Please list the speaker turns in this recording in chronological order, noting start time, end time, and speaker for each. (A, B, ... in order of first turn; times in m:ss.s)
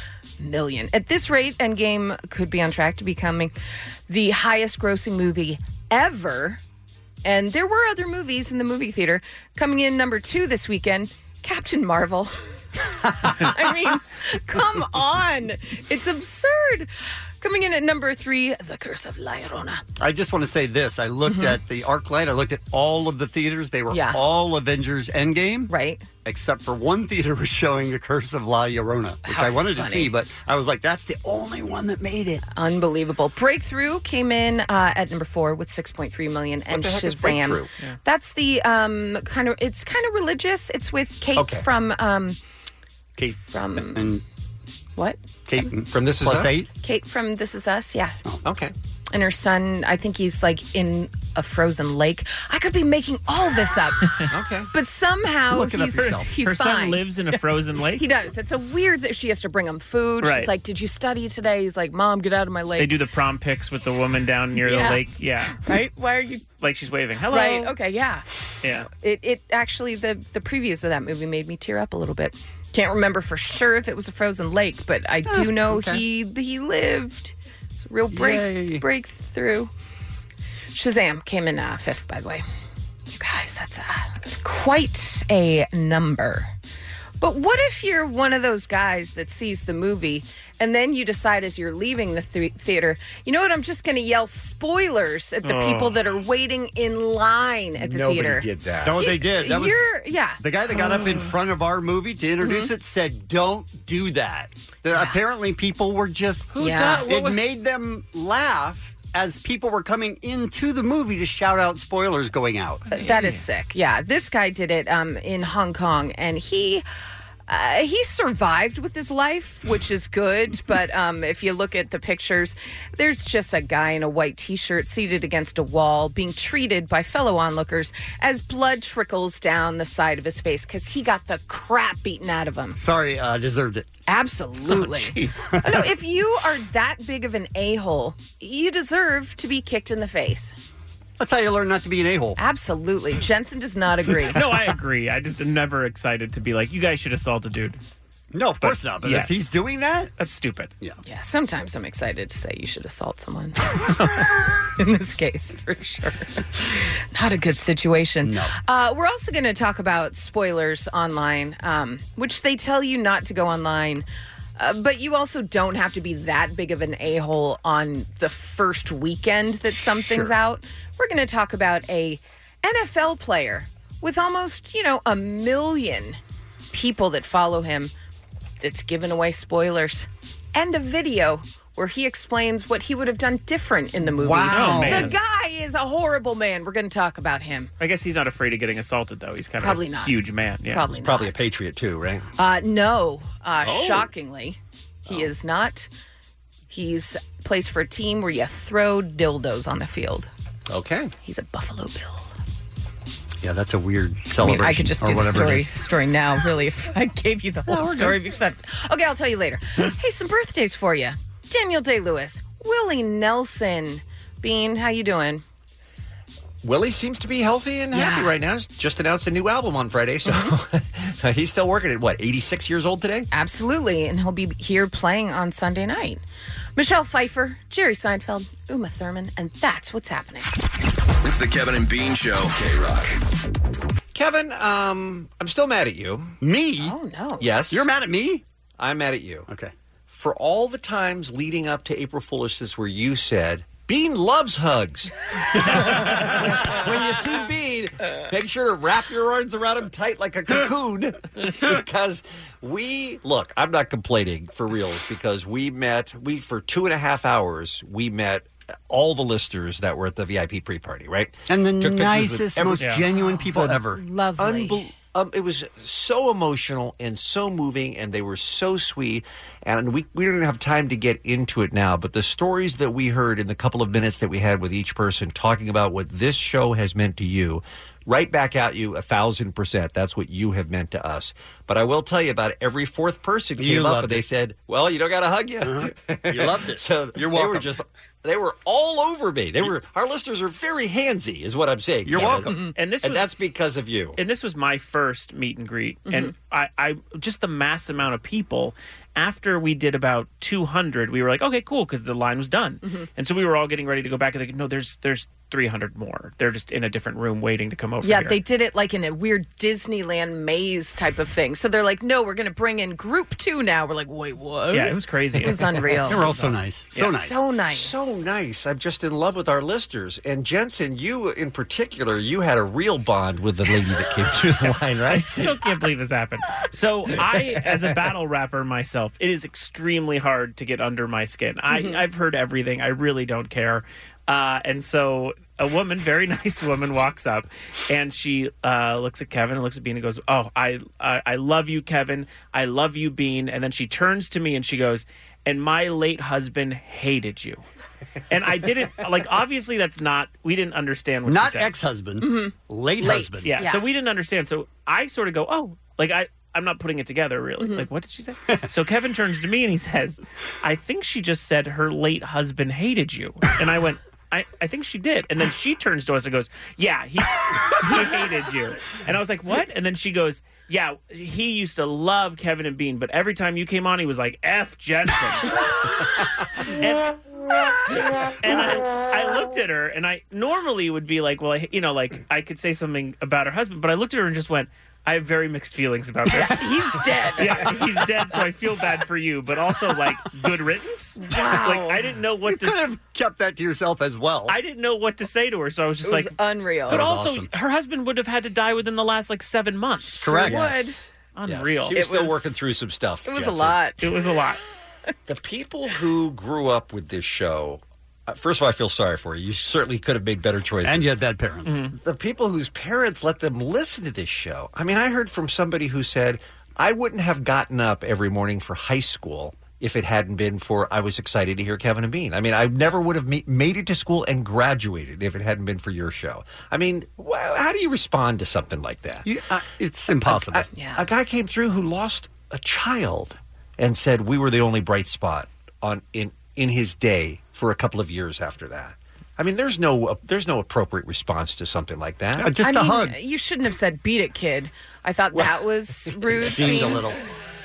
0:00.4-0:03.5 A
0:04.1-0:06.6 A
0:07.2-0:12.4 A
0:13.0-0:19.8 A
0:20.0-0:25.7 B
0:21.3-0:21.6 A
0:23.9-0:24.2 A
0:25.7-0:26.1 A
0:26.2-0:32.4 B
0:29.2-0:30.1 A
0:32.5-0:42.4 A
0:36.7-0:37.7 C
0:41.4-0:41.6 C
0:43.2-0:44.2 B
0:43.3-0:44.1 A
0:45.0-0:45.6 A
0:45.5-0:46.7 B
0:45.9-0:46.6 C
0:46.8-0:48.2 A
0:48.4-0:48.7 C
0:49.1-0:57.4 A
0:54.3-0:54.7 C
0:55.5-0:56.3 B
0:56.0-0:58.0 D
0:57.9-1:02.9 A
1:00.2-1:00.5 D
1:02.8-1:05.6 D
1:04.6-1:05.0 A
1:05.6-1:06.4 A
1:06.6-1:07.7 D
1:07.3-1:08.2 A
1:08.6-1:08.9 D
1:08.9-1:19.7 A
1:15.3-1:16.0 B
1:18.1-1:18.8 B
1:20.7-1:22.4 A
1:23.1-1:26.5 A
1:27.2-1:40.4 A
1:35.4-1:36.0 D
1:37.8-1:39.1 C
1:38.8-1:39.9 B
1:40.4-1:52.8 B
1:40.8-1:41.2 D
1:42.4-1:42.7 A
1:44.9-1:45.2 A
1:46.5-1:47.4 D
1:46.6-1:47.1 A
1:52.9-1:53.4 D
1:52.9-1:56.8 A
1:57.5-2:12.8 A
2:12.8-2:13.9 B
2:14.1-2:20.5 A
2:14.7-2:15.6 D
2:21.2-2:22.4 B
2:22.4-2:24.4 A
2:24.3-2:27.8 D
2:28.3-2:30.1 B
2:28.6-2:29.5 D
2:30.2-2:30.7 D
2:31.0-2:44.0 A
2:38.2-2:38.5 B
2:44.6-2:56.2 A
2:49.8-2:50.3 B
2:56.7-2:57.9 A
2:58.6-3:07.7 A
3:04.0-3:05.1 B
3:04.5-3:05.2 D
3:07.8-3:10.8 D
3:09.6-3:11.4 A
3:11.0-3:12.3 C
3:12.4-3:15.9 A
3:13.6-3:14.1 C
3:16.7-3:20.3 A
3:20.7-3:21.1 C
3:21.2-3:22.3 A
3:23.4-3:25.7 B
3:24.4-3:35.4 A
3:27.7-3:28.2 B
3:36.6-3:43.3 C
3:37.9-3:38.3 A
3:43.3-3:46.2 A
3:46.8-3:50.5 A
3:51.2-3:53.2 E
3:54.1-3:56.3 C
3:56.4-3:57.0 B
3:56.8-3:57.5 A
3:57.4-3:57.8 C
3:57.7-3:58.4 B
3:58.8-3:59.5 C
4:00.1-4:23.0 C
4:05.8-4:06.5 B
4:21.5-4:24.0 B
4:23.5-4:23.8 C
4:23.9-4:24.9 A
4:24.4-4:54.2 C
4:43.6-4:44.2 B
4:45.6-4:47.7 B
4:52.0-4:52.5 B
4:52.7-4:53.3 D
4:54.2-5:08.4 D
5:08.0-5:16.2 A
5:14.7-5:16.6 D
5:16.0-5:17.4 B
5:16.9-5:18.2 A
5:17.7-5:25.5 C
5:25.1-5:47.6 D
5:31.7-5:32.0 A
5:48.3-5:51.7 D
5:51.2-5:53.5 B
5:52.2-5:53.8 A
5:53.5-6:15.6 D
5:57.6-5:57.8 A
6:16.6-6:17.1 D
6:18.4-6:26.7 D
6:26.3-6:27.7 A
6:27.4-6:32.8 D
6:31.2-6:31.9 A
6:32.4-6:34.6 B
6:34.5-6:36.3 D
6:36.0-6:37.0 A
6:36.9-6:40.5 D
6:36.9-6:37.5 B
6:40.0-6:41.0 A
6:40.2-6:40.6 B
6:40.5-6:40.8 C
6:41.4-6:42.2 D
6:41.4-6:43.8 C
6:41.9-6:42.6 A
6:43.2-6:44.1 A
6:44.0-6:44.6 D
6:45.3-6:51.1 C
6:50.8-6:51.8 B
6:51.6-6:52.0 D
6:52.0-7:09.2 C
7:09.2-7:10.6 B
7:10.3-7:22.5 C
7:10.7-7:11.0 A
7:22.3-7:23.2 B
7:22.6-7:27.0 A
7:25.3-7:25.6 C
7:26.1-7:26.7 C
7:26.4-7:27.2 B